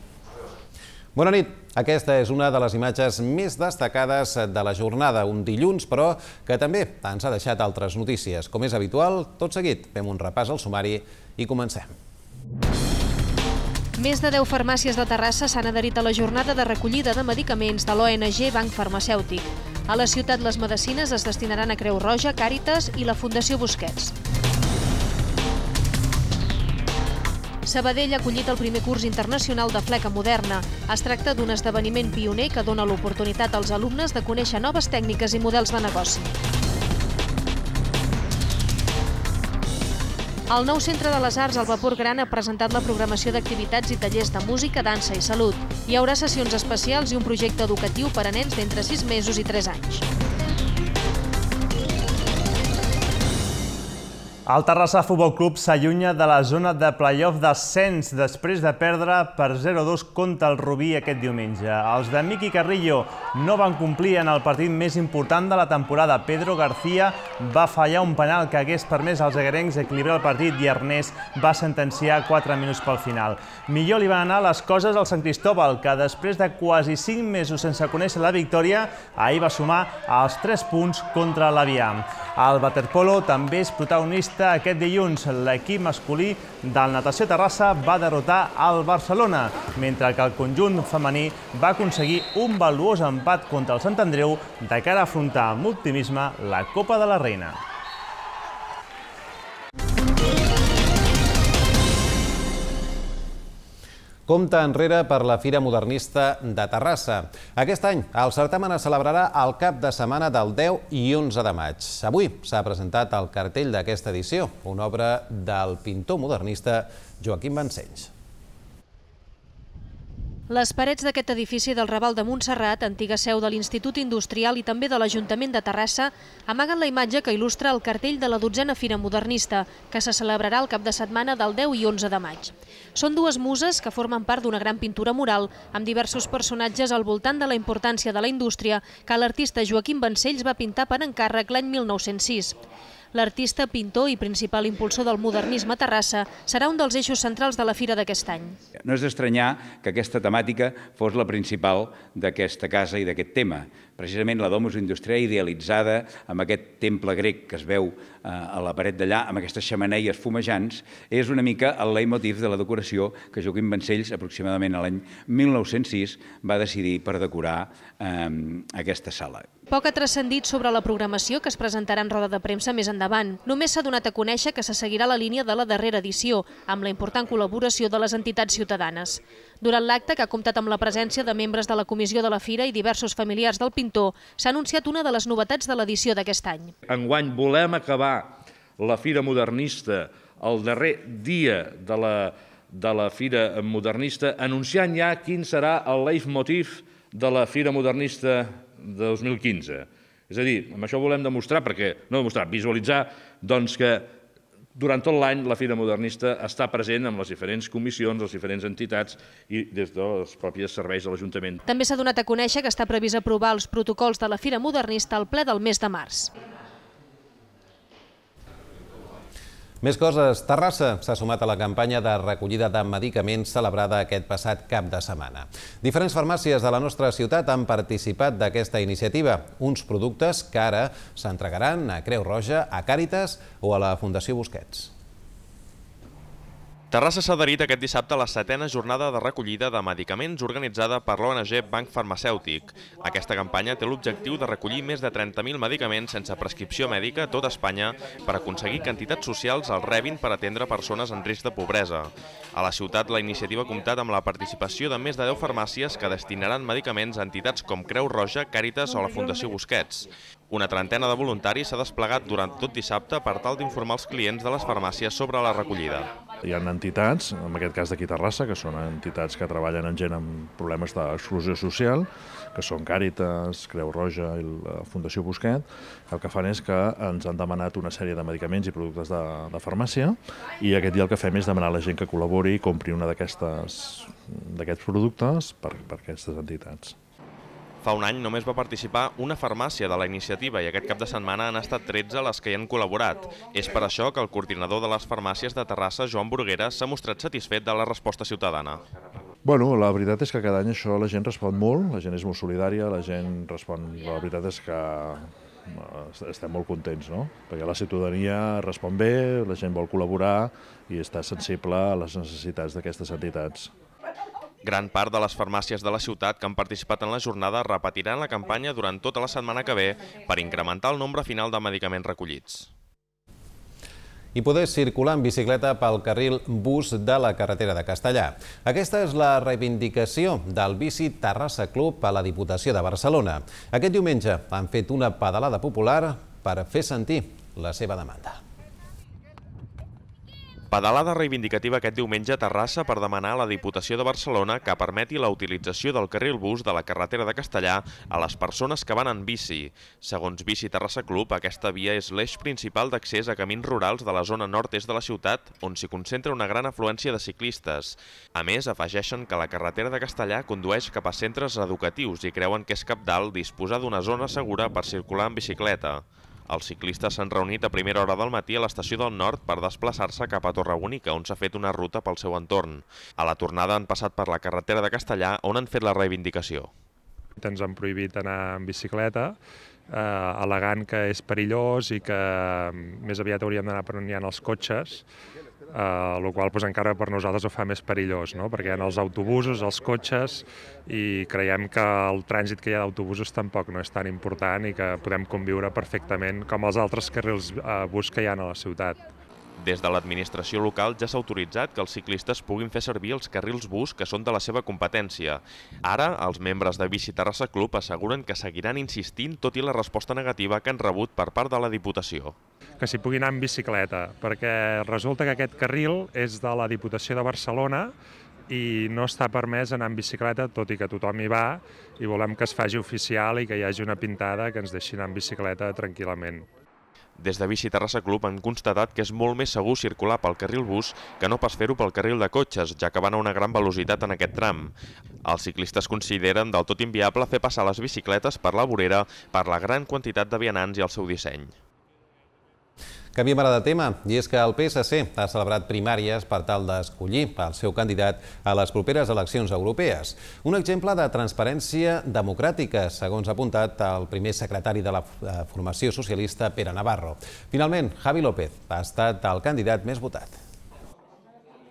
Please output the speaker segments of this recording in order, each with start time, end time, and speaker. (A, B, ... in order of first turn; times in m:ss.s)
0:01.1-0:11.9 A
0:14.0-0:24.1 B
0:27.6-0:36.3 B
0:40.5-0:50.0 B
0:54.4-1:37.6 C
1:44.3-1:58.1 A
2:00.5-2:22.6 B
2:23.1-2:28.6 B
2:28.8-2:49.5 D
2:49.7-3:06.7 B
3:06.8-3:24.1 E
3:24.7-3:31.6 E
3:31.6-3:36.3 B
3:39.8-3:54.9 A
3:56.9-4:26.1 F
4:26.4-4:47.0 G
4:47.8-4:58.8 F
4:59.4-5:13.7 G
5:14.6-5:22.7 F
5:24.3-5:38.4 A
5:40.7-6:16.7 F
6:17.4-6:19.4 H
6:19.9-6:25.0 H
6:25.7-6:39.0 H
6:39.6-6:52.3 F
6:52.8-6:57.9 H
6:58.5-7:06.5 H
7:07.2-7:14.7 F
7:15.2-7:21.6 F
7:23.1-7:40.4 A